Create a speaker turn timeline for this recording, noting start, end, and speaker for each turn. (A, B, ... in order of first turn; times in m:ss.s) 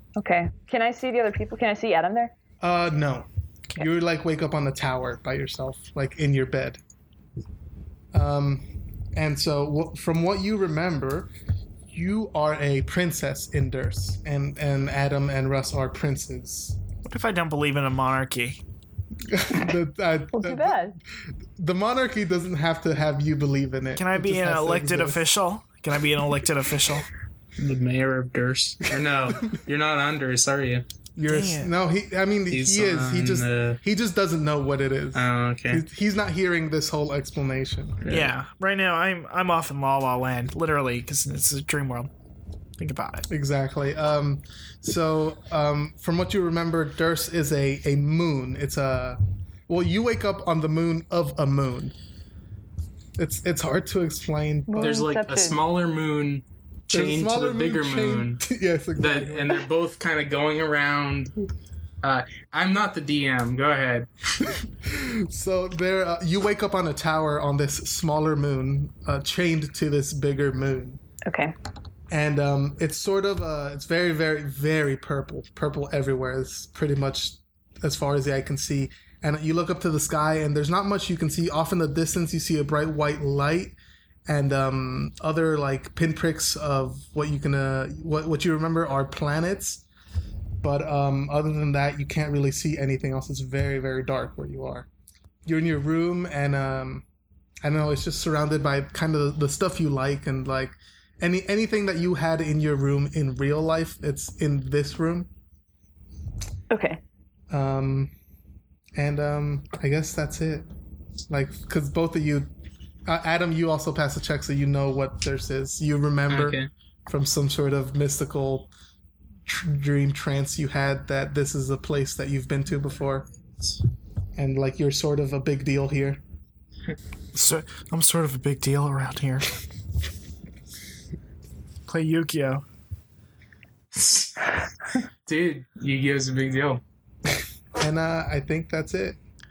0:00.2-0:02.3 A
0:02.6-0:06.8 B
0:08.1-0:11.3 B
0:11.9-0:16.8 B
0:17.1-0:18.6 C
0:19.2-0:21.0 B
0:20.3-0:21.0 A
0:21.6-0:25.2 B
0:24.0-0:27.1 C
0:27.6-0:30.8 D
0:31.2-0:38.0 B
0:31.3-0:31.7 C
0:32.5-0:33.8 D
0:35.1-0:35.8 D
0:38.0-0:38.3 D
0:38.1-0:42.1 C
0:42.8-0:43.3 C
0:43.3-0:51.9 B
0:53.2-0:55.1 B
0:54.7-0:55.6 A
0:54.8-0:58.4 D
0:56.9-0:59.6 B
0:59.0-1:01.4 D
1:02.0-1:04.1 D
1:04.4-1:11.0 B
1:11.2-1:11.5 A
1:12.1-1:23.8 B
1:24.3-1:29.8 B
1:30.6-1:34.9 B
1:35.4-1:37.0 B
1:37.6-1:45.3 B
1:46.7-1:47.0 A
1:47.5-1:48.1 B
1:48.9-1:50.7 B
1:51.3-1:52.5 B
1:53.1-1:58.7 B
1:56.3-1:56.7 D
1:59.4-2:03.3 B
2:04.4-2:06.2 B
2:07.3-2:09.5 C
2:11.9-2:12.6 C
2:13.9-2:14.6 D
2:15.2-2:16.8 D
2:17.8-2:19.2 B